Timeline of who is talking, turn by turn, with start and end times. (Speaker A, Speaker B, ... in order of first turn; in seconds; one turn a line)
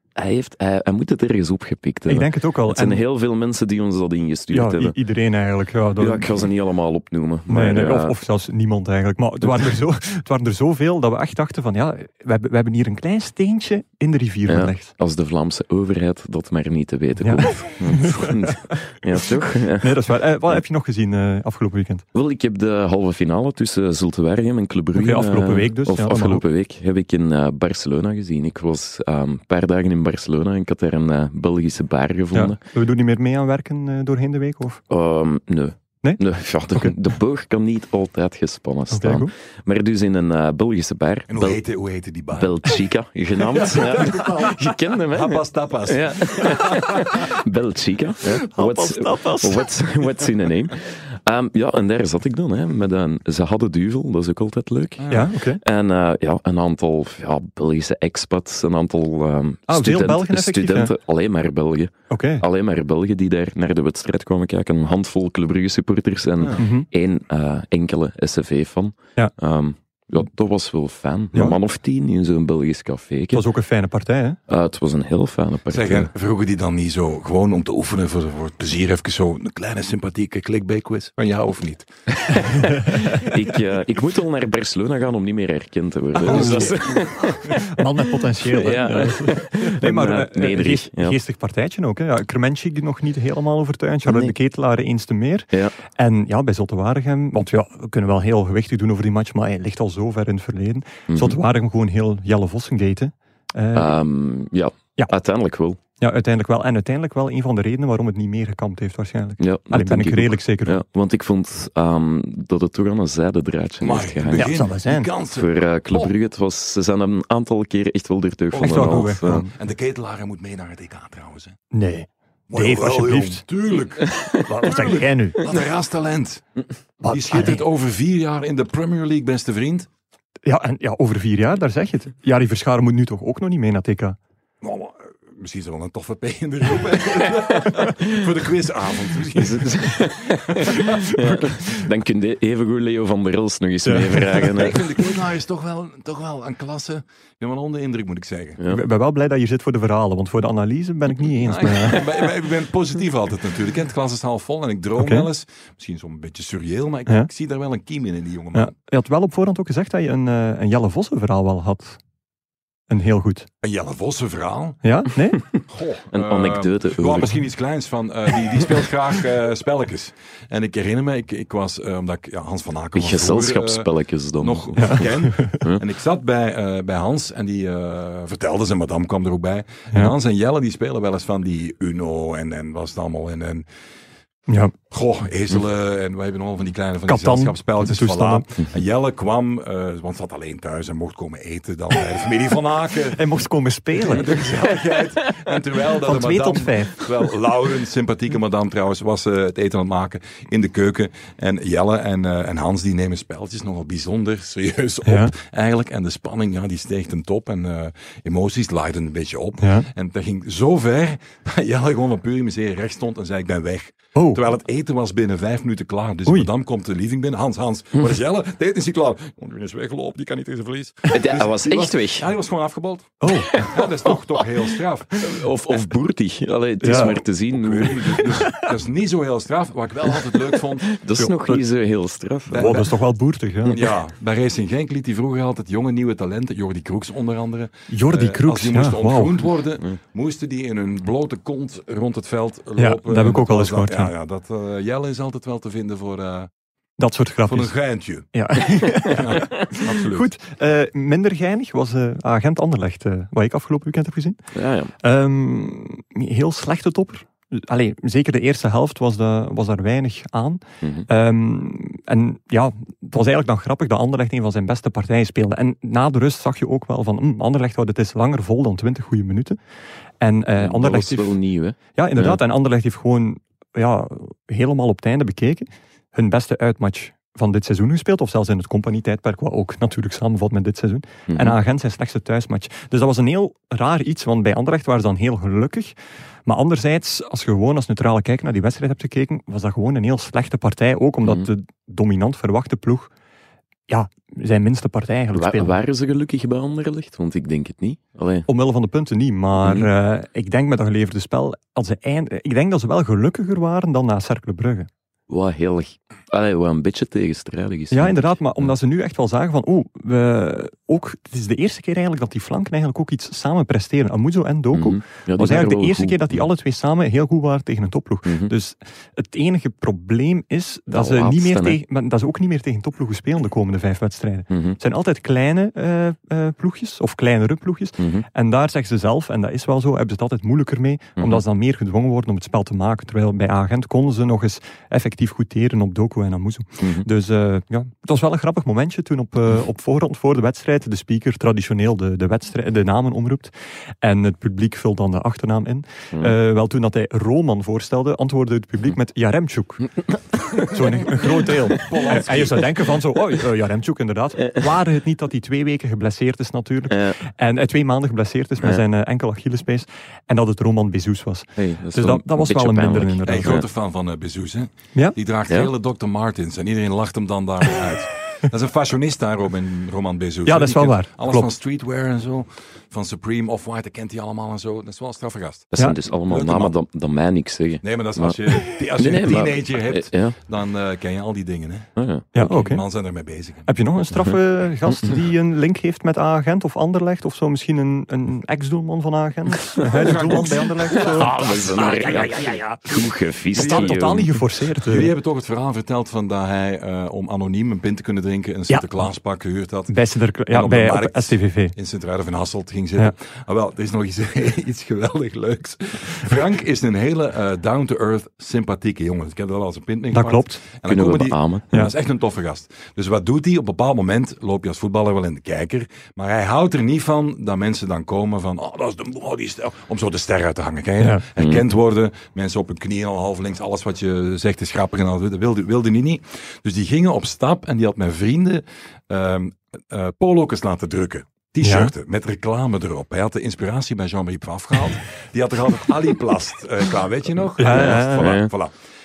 Speaker A: 0.2-5.0
Speaker B: 2.1-3.0
Speaker B: 4.5-6.5
Speaker A: 6.0-8.1
Speaker B: 7.5-14.9
Speaker A: 14.5-20.0
Speaker B: 17.2-18.6
Speaker B: 19.8-22.0
Speaker A: 22.1-32.6
Speaker B: 24.9-26.4
Speaker B: 32.3-34.8
Speaker A: 34.9-41.6
Speaker B: 36.0-36.9
Speaker B: 38.9-39.3
Speaker C: 41.3-42.8
Speaker A: 42.3-73.5
Speaker C: 43.4-47.3
Speaker B: 48.4-49.8
Speaker C: 55.0-55.3
Speaker B: 55.1-55.6
Speaker B: 59.7-60.9
Speaker B: 62.1-62.4
Speaker B: 66.5-66.8
Speaker B: 73.3-74.4
Speaker A: 74.5-76.1
Speaker C: 75.7-81.9
Speaker A: 82.2-87.8
Speaker B: 82.5-83.2
Speaker C: 86.1-87.2
Speaker B: 86.2-104.0
Speaker A: 88.4-91.2
Speaker A: 94.0-94.3
Speaker A: 101.1-101.4
Speaker A: 103.7-105.8
Speaker B: 106.0-110.8
Speaker A: 109.4-114.5
Speaker C: 113.8-116.1
Speaker B: 114.3-115.1
Speaker A: 115.3-119.5
Speaker C: 118.5-121.6
Speaker B: 118.6-119.5
Speaker B: 121.7-123.4
Speaker C: 122.5-126.4
Speaker A: 124.0-124.4
Speaker B: 124.6-125.4
Speaker B: 127.0-127.6
Speaker C: 127.1-129.9
Speaker B: 130.4-134.2
Speaker C: 134.6-140.9
Speaker A: 139.3-144.8
Speaker B: 140.8-141.8
Speaker B: 143.8-144.5
Speaker C: 144.5-148.6
Speaker B: 148.7-152.0
Speaker C: 151.4-158.7
Speaker B: 155.0-155.3
Speaker B: 158.5-162.0
Speaker B: 162.9-163.5
Speaker C: 163.6-164.8
Speaker B: 164.8-165.4
Speaker C: 165.7-183.7
Speaker A: 166.1-167.4
Speaker A: 172.9-175.8
Speaker B: 174.8-175.6
Speaker B: 184.5-184.7
Speaker C: 184.9-193.2
Speaker B: 187.1-188.5
Speaker B: 193.1-194.4
Speaker C: 193.9-225.4
Speaker B: 196.0-197.1
Speaker B: 205.0-205.3
Speaker B: 209.6-209.9
Speaker B: 214.1-214.4
Speaker A: 221.1-222.3
Speaker B: 223.2-223.7
Speaker A: 223.5-224.4
Speaker A: 225.2-228.4
Speaker B: 226.8-227.2
Speaker C: 226.9-230.9
Speaker B: 228.2-228.7
Speaker A: 230.6-232.9
Speaker B: 231.2-231.6
Speaker C: 232.5-232.9
Speaker B: 232.5-233.8
Speaker C: 233.7-246.5
Speaker B: 237.9-239.4
Speaker B: 242.8-244.1
Speaker B: 247.0-247.7
Speaker C: 247.5-248.3
Speaker B: 248.3-254.4
Speaker C: 248.8-250.3
Speaker A: 254.5-254.9
Speaker B: 255.0-269.6
Speaker A: 260.8-261.1
Speaker B: 270.2-271.4
Speaker A: 270.6-272.4
Speaker B: 271.9-293.1
Speaker A: 281.3-281.6
Speaker B: 293.9-295.8
Speaker A: 295.3-298.5
Speaker B: 298.5-304.9
Speaker A: 299.6-299.9
Speaker A: 305.3-308.7
Speaker B: 307.9-349.9
Speaker A: 314.7-316.4
Speaker A: 318.2-318.5
Speaker A: 320.9-321.8
Speaker A: 324.5-324.8
Speaker A: 328.0-328.2
Speaker A: 331.2-331.4
Speaker A: 336.8-337.1
Speaker A: 350.3-352.0
Speaker B: 350.5-363.6
Speaker C: 351.7-352.7
Speaker A: 356.9-357.2
Speaker A: 361.6-363.6
Speaker C: 363.2-375.7
Speaker B: 370.4-371.5
Speaker A: 375.7-380.4
Speaker C: 376.3-376.7
Speaker C: 377.8-383.7
Speaker A: 382.0-382.4
Speaker B: 382.3-382.8
Speaker B: 383.6-391.4
Speaker C: 389.8-392.5
Speaker A: 390.1-394.4
Speaker B: 392.4-392.7
Speaker B: 393.5-395.1
Speaker C: 393.6-394.0
Speaker C: 394.9-399.9
Speaker B: 399.9-401.7
Speaker C: 400.5-438.7
Speaker B: 410.1-410.6
Speaker A: 410.9-411.8
Speaker B: 431.6-431.9
Speaker B: 437.6-438.3
Speaker A: 437.7-438.5